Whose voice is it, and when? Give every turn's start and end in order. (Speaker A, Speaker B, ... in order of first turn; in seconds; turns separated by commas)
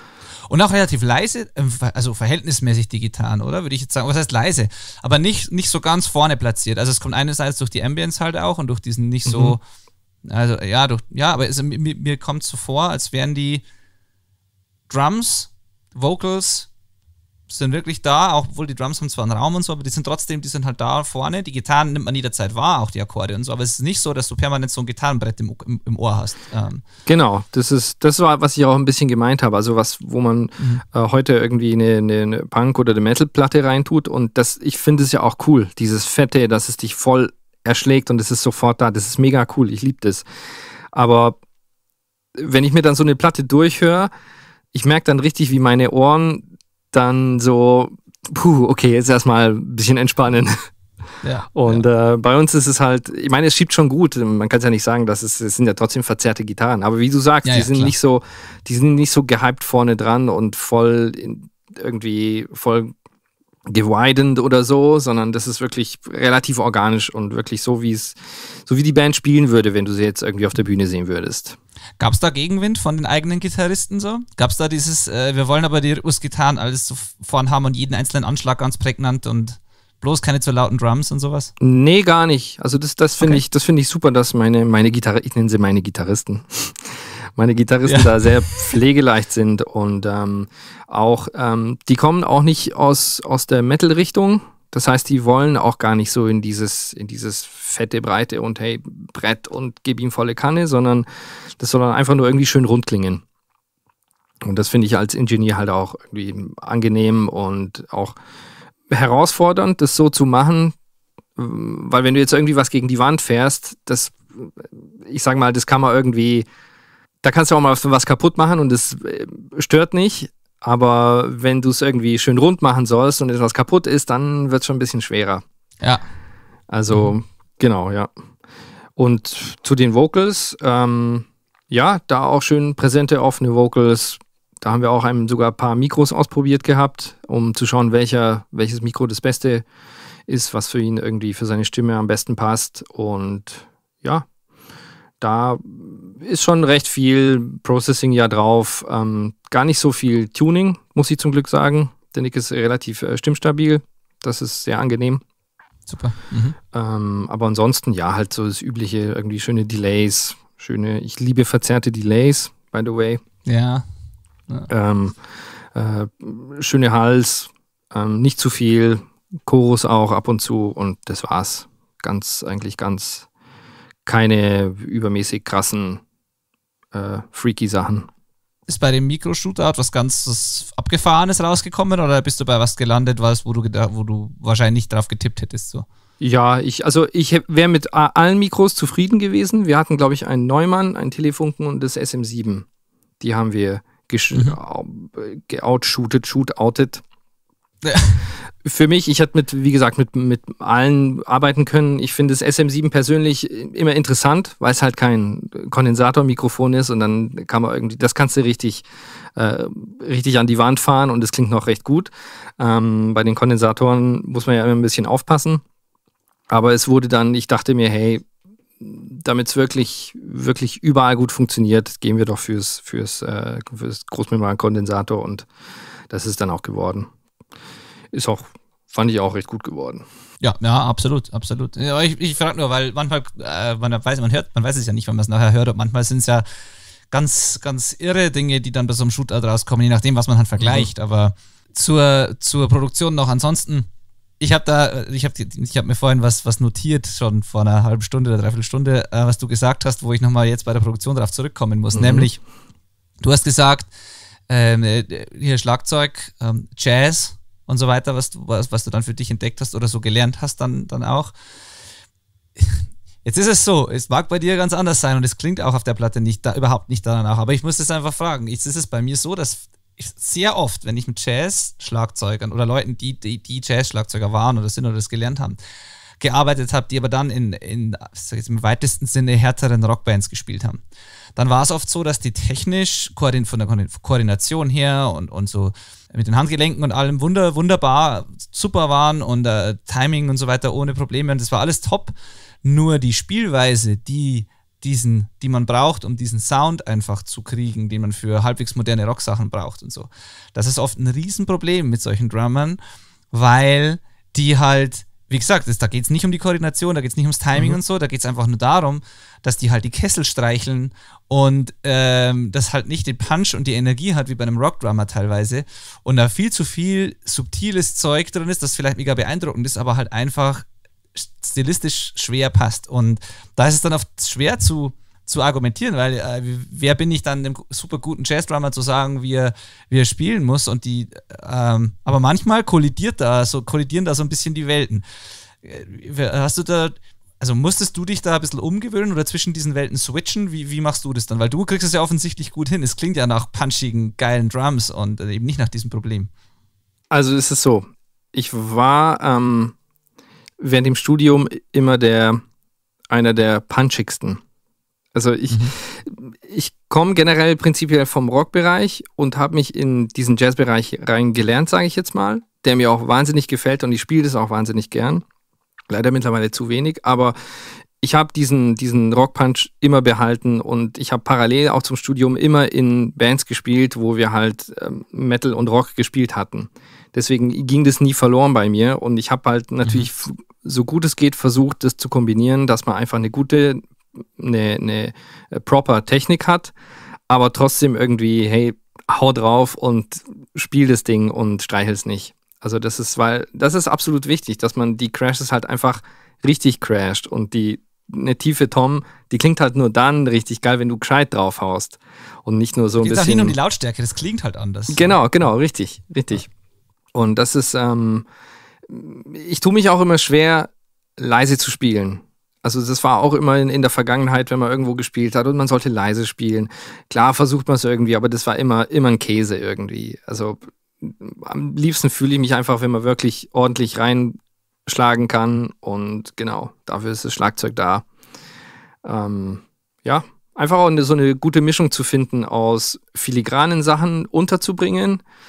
Speaker A: 0.5-9.6, Speaker B: 9.2-9.6, Speaker A: 10.2-13.6, Speaker A: 14.9-16.7, Speaker A: 17.5-26.8, Speaker B: 27.1-40.2, Speaker B: 40.9-41.4, Speaker B: 42.4-44.1, Speaker B: 44.7-50.5, Speaker A: 51.2-51.9, Speaker B: 51.5-62.9, Speaker A: 57.4-57.9, Speaker B: 63.7-71.6, Speaker A: 72.0-81.5, Speaker B: 81.6-101.0, Speaker A: 87.8-88.1, Speaker B: 101.6-103.2, Speaker B: 104.4-108.2, Speaker B: 108.9-110.7, Speaker B: 111.3-116.5, Speaker B: 117.2-125.4, Speaker B: 126.7-128.1, Speaker B: 128.9-139.6, Speaker B: 140.3-144.3, Speaker B: 145.2-155.2, Speaker A: 155.9-156.6, Speaker B: 156.7-163.2, Speaker A: 163.4-163.8, Speaker B: 164.7-165.2, Speaker B: 165.7-173.3, Speaker B: 174.0-176.0, Speaker B: 176.9-178.1, Speaker A: 178.7-185.8, Speaker B: 186.2-192.6, Speaker B: 193.2-197.0, Speaker A: 197.8-198.2, Speaker B: 198.6-215.6, Speaker B: 216.5-218.2, Speaker B: 218.8-225.5, Speaker B: 226.1-227.1, Speaker B: 228.1-230.0, Speaker A: 230.4-236.4, Speaker A: 237.1-243.9, Speaker B: 240.6-240.9, Speaker A: 244.4-252.4, Speaker B: 251.9-252.3, Speaker A: 253.2-253.9, Speaker A: 254.5-261.3, Speaker A: 262.6-275.6, Speaker A: 276.2-280.8, Speaker A: 281.4-302.8, Speaker A: 303.3-335.0, Speaker A: 335.6-346.3, Speaker B: 347.1-349.7, Speaker B: 350.6-352.4, Speaker B: 353.1-354.4, Speaker B: 355.1-365.2, Speaker B: 365.9-367.3, Speaker B: 368.0-383.8, Speaker B: 384.4-386.7, Speaker B: 387.3-403.6, Speaker A: 402.9-405.1, Speaker B: 404.9-406.5, Speaker B: 407.1-408.2, Speaker B: 408.9-428.0, Speaker B: 429.0-435.2